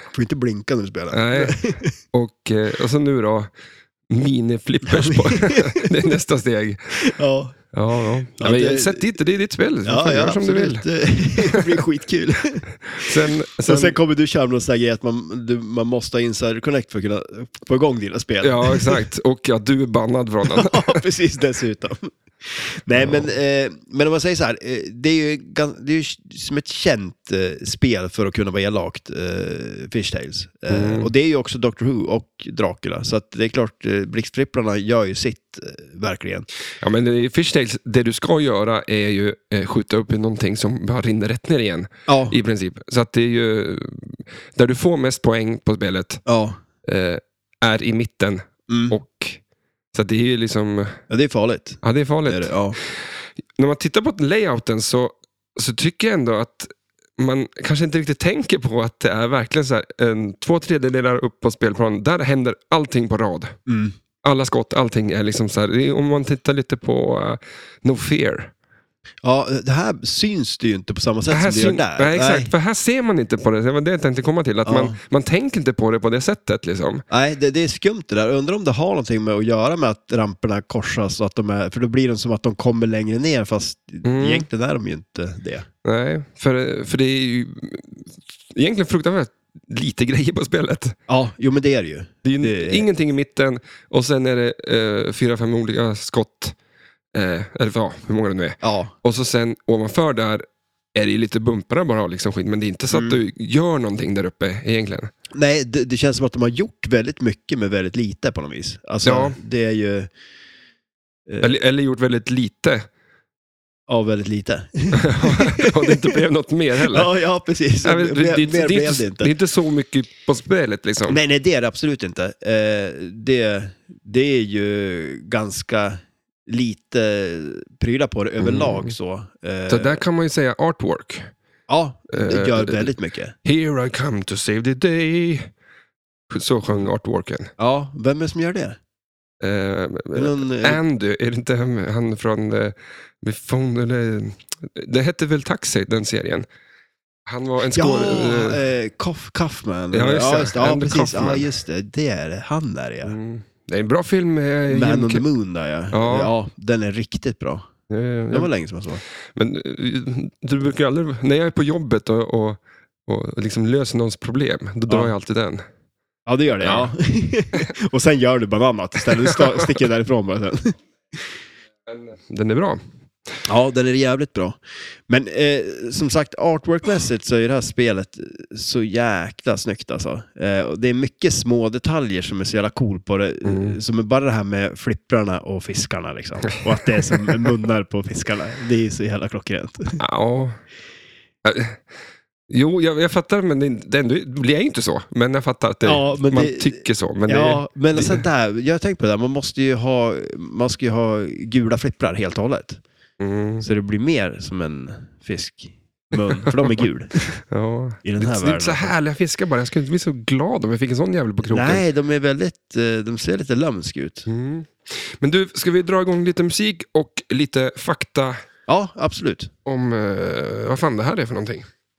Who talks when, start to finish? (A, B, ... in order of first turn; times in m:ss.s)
0:00.1-0:02.0 A
0:01.1-0:01.6 B
0:02.1-0:03.5 B
0:04.1-0:07.0 B
0:04.8-0:06.0 A
0:06.9-0:07.6 A
0:07.7-0:10.8 B
0:08.4-0:09.1 A
0:09.8-0:19.0 A
0:11.5-0:11.8 B
0:12.9-0:13.9 B
0:18.4-0:21.0 B
0:20.4-0:36.4 A
0:23.0-0:23.3 B
0:30.7-0:31.1 B
0:36.8-0:46.2 B
0:42.1-0:42.4 A
0:46.2-0:46.6 A
0:46.8-0:49.4 B
0:48.7-0:49.0 A
0:49.9-0:51.0 B
0:51.1-0:52.8 A
0:51.8-0:52.8 B
0:53.6-1:03.5 B
1:03.7-1:03.9 A
1:04.2-1:08.5 B
1:09.2-1:12.5 A
1:11.3-1:17.0 B
1:14.6-1:15.0 A
1:17.1-1:25.7 A
1:24.0-1:24.4 B
1:25.8-1:31.0 B
1:31.1-1:32.8 A
1:32.2-1:36.5 B
1:37.1-1:40.4 B
1:38.6-1:38.9 A
1:40.9-1:45.1 B
1:42.9-1:43.2 A
1:45.3-1:50.1 A
1:49.0-1:49.4 B
1:51.3-1:51.5 A
1:51.4-1:52.8 B
1:53.9-1:56.2 A
1:54.9-1:57.1 B
1:56.8-1:59.3 A
1:57.8-2:01.2 B
2:01.0-2:10.0 A
2:08.4-2:08.9 B
2:09.7-2:11.3 B
2:11.7-2:13.3 A
2:12.1-2:12.9 B
2:13.4-2:15.5 B
2:16.3-2:17.5 B
2:17.6-2:18.8 A
2:19.4-2:26.4 B
2:20.1-2:20.8 A
2:27.3-2:28.6 B
2:27.7-2:33.2 A
2:29.9-2:31.4 B
2:33.0-2:35.2 B
2:34.7-2:37.7 A
2:35.9-2:36.3 B
2:37.9-2:38.5 B
2:38.3-2:39.0 A
2:39.3-2:45.6 B
2:44.9-2:45.1 A
2:46.3-2:51.2 A
2:46.6-2:46.9 B
2:49.3-2:49.6 B
2:51.9-2:52.8 B
2:53.4-2:54.6 A
2:55.1-3:10.0 A
3:03.4-3:03.8 B
3:10.0-3:10.6 B
3:11.4-3:11.8 B
3:12.5-3:18.2 B
3:15.8-3:22.8 A
3:23.2-3:23.6 B
3:23.6-3:27.4 A
3:26.4-3:26.8 B
3:27.5-3:31.8 B
3:28.0-3:28.9 A
3:31.4-3:34.3 A
3:34.3-3:38.4 B
3:38.7-3:39.5 A
3:39.6-3:41.7 B